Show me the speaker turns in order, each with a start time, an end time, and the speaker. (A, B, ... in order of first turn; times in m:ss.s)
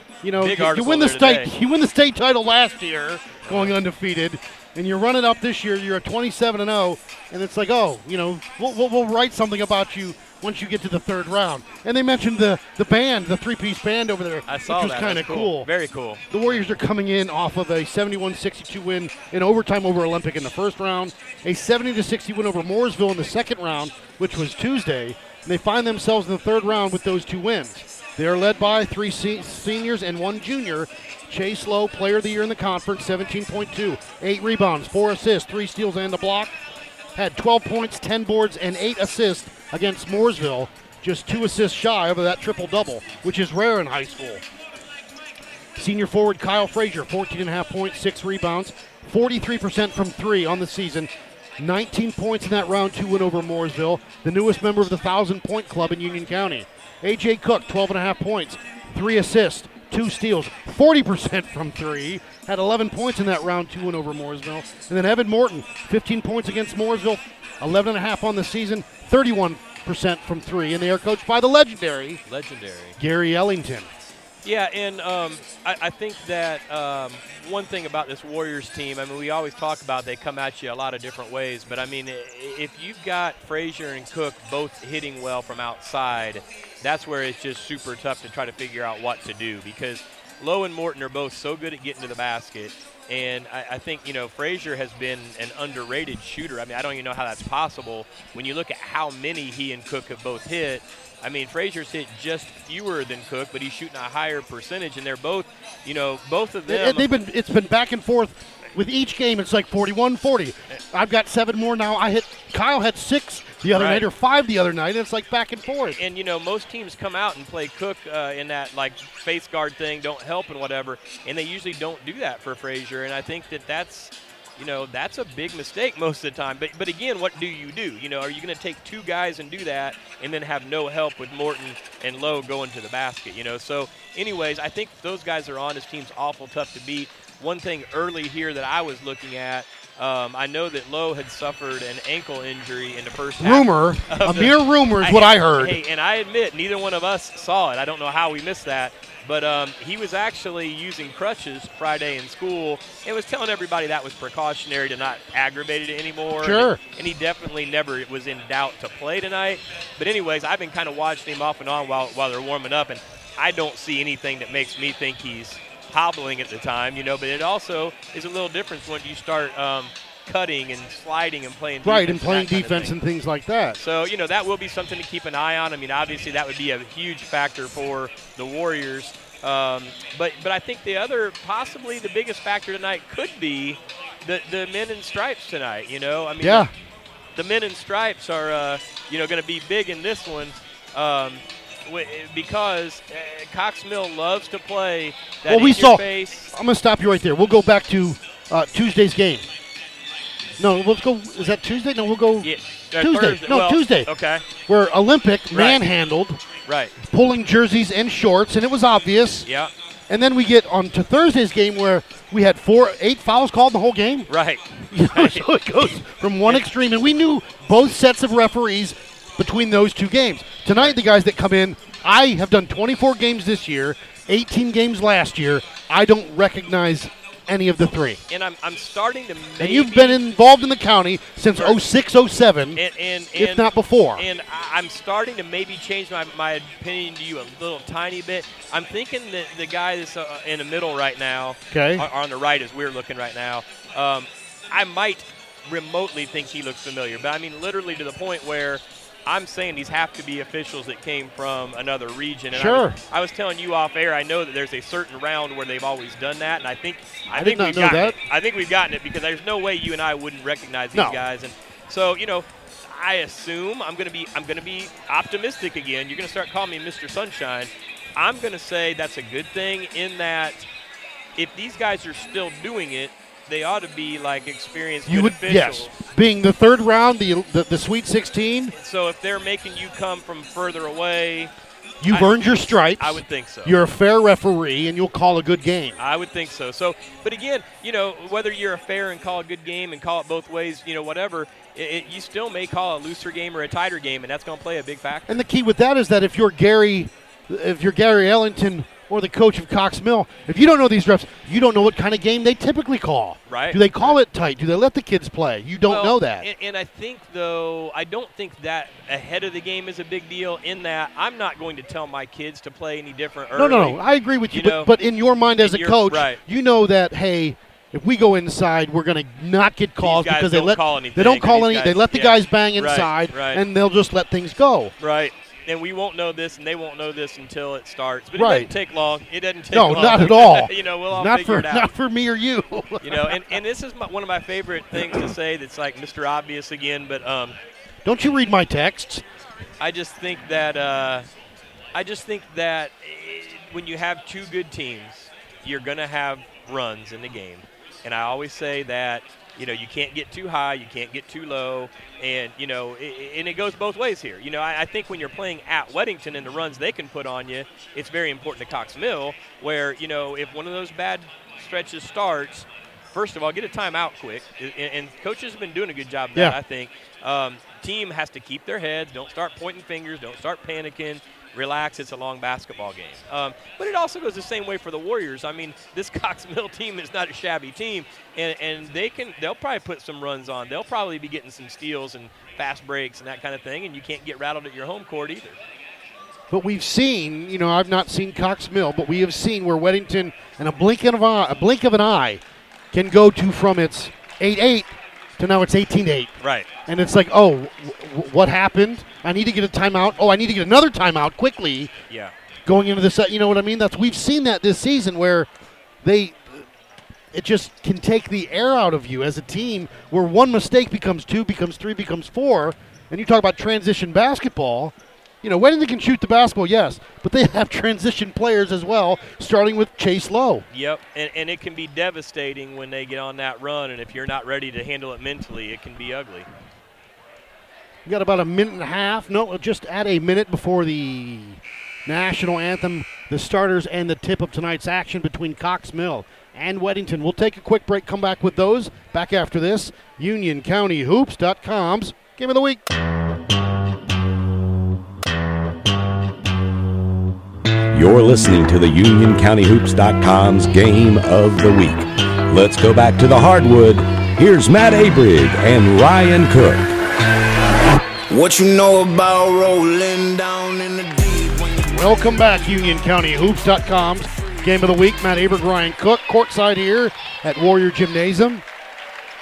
0:00.2-0:15.7 A
0:00.4-0:01.5 B
0:03.4-0:03.7 B
0:14.5-0:16.6 B
0:16.3-0:36.6 A
0:37.2-0:44.4 A
0:45.8-1:12.2 A
1:12.3-1:13.0 B
1:13.0-1:13.9 A
1:14.4-1:47.1 B
1:46.7-1:56.0 A
1:53.7-1:54.1 B
1:56.0-2:53.0 B
2:23.4-2:25.8 A
2:36.4-2:36.8 A
2:51.8-2:53.8 A
2:53.8-3:06.7 B
3:06.4-3:06.7 A
3:07.4-3:16.5 B
3:15.5-3:19.5 A
3:20.6-3:24.1 A
3:22.4-3:24.5 B
3:24.7-3:26.4 A
3:25.5-3:25.8 B
3:26.7-3:27.0 B
3:27.0-3:29.5 A
3:29.4-3:29.7 B
3:30.1-3:34.3 A
3:34.3-3:35.5 B
3:34.9-3:48.2 A
3:48.3-3:50.2 B
3:49.6-3:52.8 A
3:51.5-3:51.8 B
3:52.8-4:30.7 B
3:53.4-3:54.3 A
4:01.7-4:02.1 A
4:12.5-4:13.0 A
4:17.3-4:18.2 A
4:20.9-4:21.2 A
4:31.4-4:35.9 B
4:35.1-4:38.7 A
4:38.7-4:41.5 B
4:42.0-4:46.0 A
4:42.1-4:43.8 B
4:46.0-4:55.4 B
4:55.3-5:06.5 A
5:03.5-5:04.2 B
5:05.9-5:14.9 B
5:13.6-5:24.9 A
5:15.6-5:16.4 B
5:20.0-5:23.6 B
5:25.0-5:31.9 B
5:28.4-5:28.7 A
5:29.7-5:33.6 A
5:33.0-5:37.6 B
5:35.0-5:35.2 A
5:38.0-5:39.2 A
5:39.8-5:41.3 B
5:41.9-6:25.6 B
6:26.5-6:32.4 A
6:32.9-6:36.3 A
6:36.4-6:36.7 B
6:36.9-6:41.9 A
6:42.7-6:45.5 A
6:46.0-6:46.7 A
6:47.3-7:00.7 A
7:00.7-7:06.5 B
7:08.0-7:22.8 A
7:27.9-7:37.0 C
7:38.3-7:42.0 D
7:41.9-7:48.6 A